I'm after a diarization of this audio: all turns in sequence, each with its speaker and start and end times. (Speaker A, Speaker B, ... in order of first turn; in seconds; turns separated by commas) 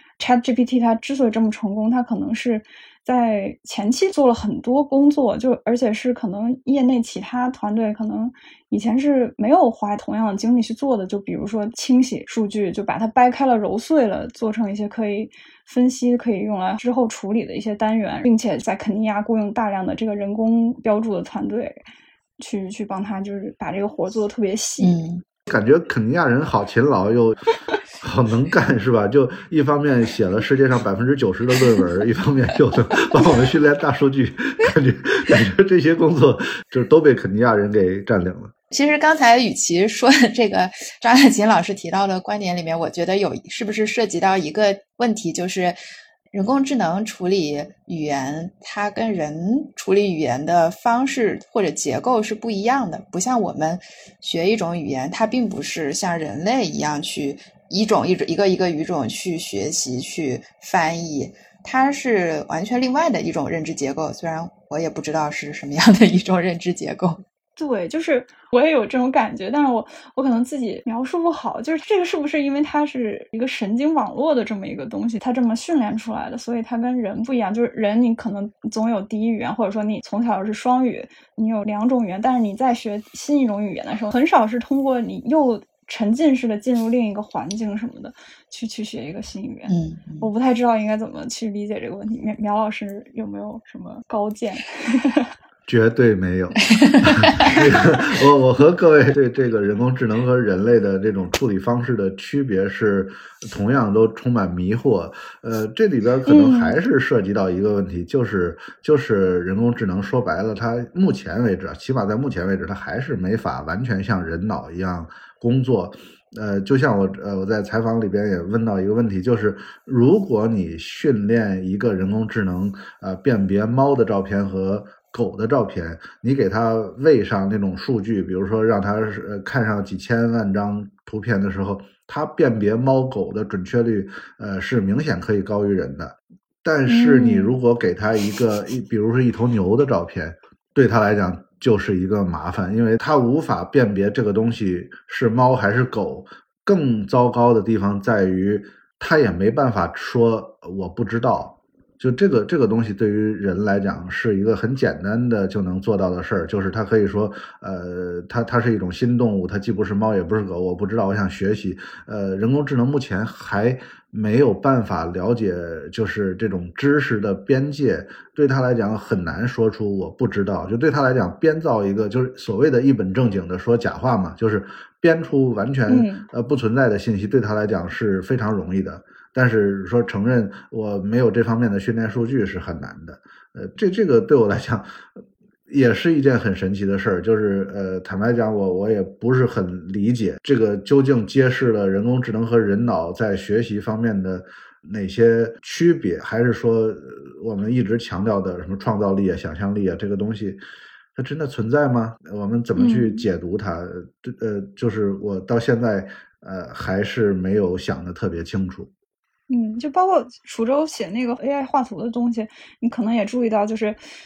Speaker A: 0.2-21.8, Speaker A: 22.4-25.0, Speaker B: 24.8-25.2, Speaker C: 25.5-38.5, Speaker B: 38.7-45.8, Speaker B: 46.3-67.2, Speaker A: 67.6-95.3, Speaker B: 89.7-90.3, Speaker C: 95.7-185.0, Speaker B: 96.8-97.2, Speaker A: 106.3-106.8, Speaker A: 136.9-137.6, Speaker A: 175.9-176.2, Speaker C: 185.7-200.6, Speaker C: 201.1-208.9, Speaker A: 202.8-203.2, Speaker A: 209.5-214.0